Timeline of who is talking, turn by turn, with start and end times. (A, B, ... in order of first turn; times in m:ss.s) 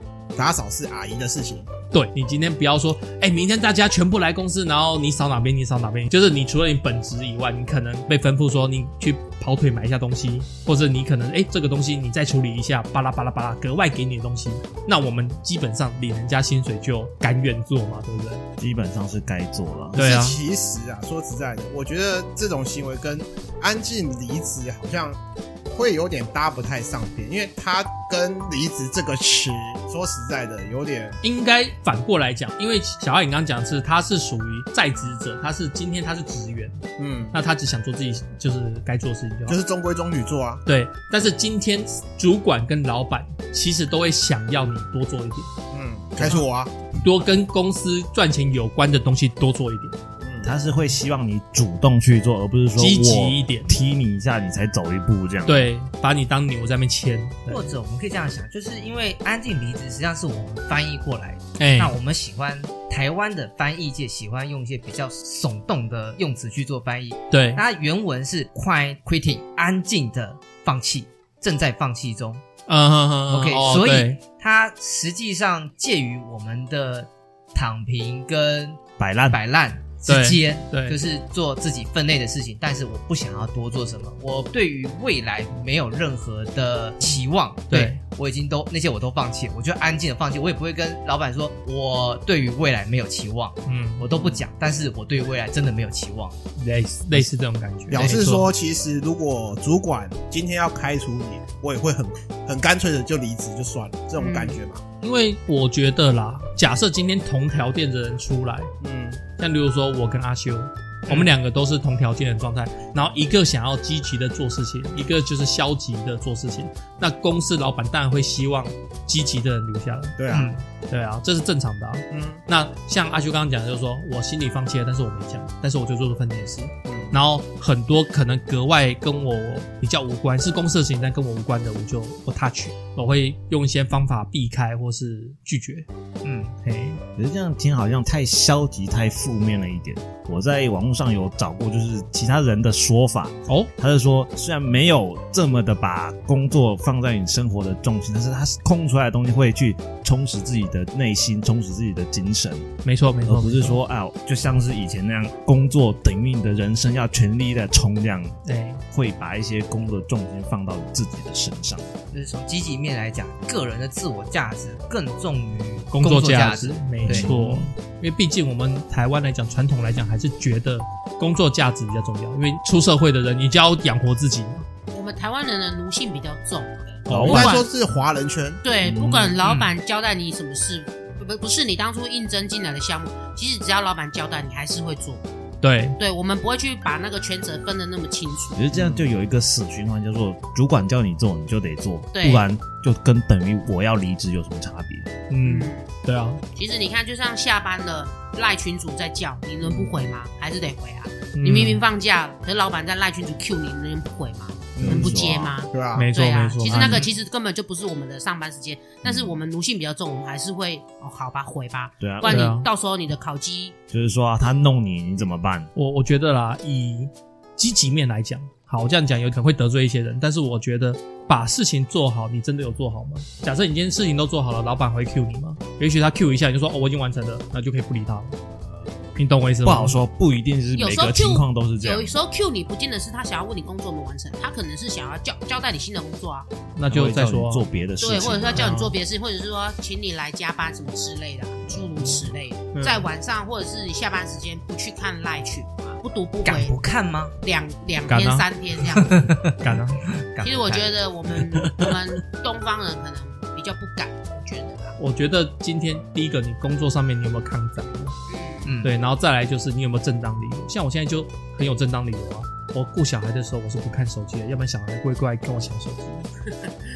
0:00.3-0:01.7 A
0:01.9-0:18.4 B
0:18.6-0:20.0 C
0:19.9-0:25.2 A
0:20.0-0:20.4 B
0:25.7-0:31.2 A
0:31.2-0:39.6 B
0:37.0-0:37.3 A
0:39.5-0:40.6 A
0:40.6-0:45.5 B
0:45.7-0:46.7 A
0:46.2-0:46.5 B
0:47.0-0:50.0 B
0:50.2-0:50.5 A
0:50.4-0:55.7 C
0:52.8-0:53.7 B
0:55.4-0:57.7 B
0:57.5-1:12.4 D
1:01.6-1:02.0 B
1:07.3-1:07.6 B
1:12.7-1:14.2 B
1:13.3-1:18.8 D
1:19.0-1:19.4 C
1:19.3-1:36.4 D
1:20.0-1:21.0 B
1:27.7-1:28.0 B
1:33.6-1:34.1 B
1:34.1-1:34.4 A
1:36.6-1:38.5 B
1:37.9-1:44.8 A
1:44.2-1:44.6 E
1:45.0-1:48.7 B
1:48.8-1:49.2 A
1:49.4-2:00.2 B
2:00.2-2:00.5 A
2:00.3-2:00.6 D
2:00.7-2:15.9 B
2:02.1-2:02.4 A
2:06.9-2:07.2 A
2:16.2-2:16.5 D
2:16.6-2:17.0 B
2:17.2-2:32.7 C
2:32.8-2:33.8 B
2:33.2-2:38.4 C
2:38.4-2:38.8 B
2:38.9-2:41.9 C
2:42.1-2:47.4 D
2:45.9-2:54.6 B
2:47.0-2:47.7 C
2:54.9-2:57.0 E
2:57.1-2:58.6 A
2:57.1-2:57.5 C
2:57.2-2:57.6 B
2:58.6-3:05.2 E
2:58.8-2:59.4 C
2:59.4-2:59.7 B
3:05.6-3:06.0 B
3:06.0-3:08.6 E
3:08.5-3:15.1 C
3:08.7-3:09.0 A
3:12.1-3:12.4 E
3:15.3-3:16.4 B
3:15.4-3:15.9 E
3:16.5-3:33.8 E
3:21.4-3:21.8 B
3:24.8-3:25.2 A
3:24.8-3:25.6 C
3:25.7-3:26.1 A
3:25.9-3:27.0 B
3:26.8-3:27.1 D
3:29.0-3:29.3 C
3:32.0-3:32.4 C
3:32.2-3:32.7 B
3:33.9-3:35.7 C
3:35.8-3:48.4 B
3:49.2-3:50.0 B
3:49.6-3:52.1 C
3:50.8-3:56.5 E
3:56.8-3:57.6 B
3:56.9-3:58.7 C
3:58.0-4:06.8 E
3:58.5-3:59.0 B
4:02.7-4:03.0 B
4:06.4-4:07.4 D
4:07.4-4:09.3 E
4:08.1-4:08.4 B
4:08.9-4:10.9 D
4:09.6-4:10.1 B
4:10.4-4:14.9 E
4:11.5-4:11.9 B
4:15.0-4:18.2 B
4:18.3-4:18.7 E
4:18.6-4:18.9 D
4:18.8-4:26.2 B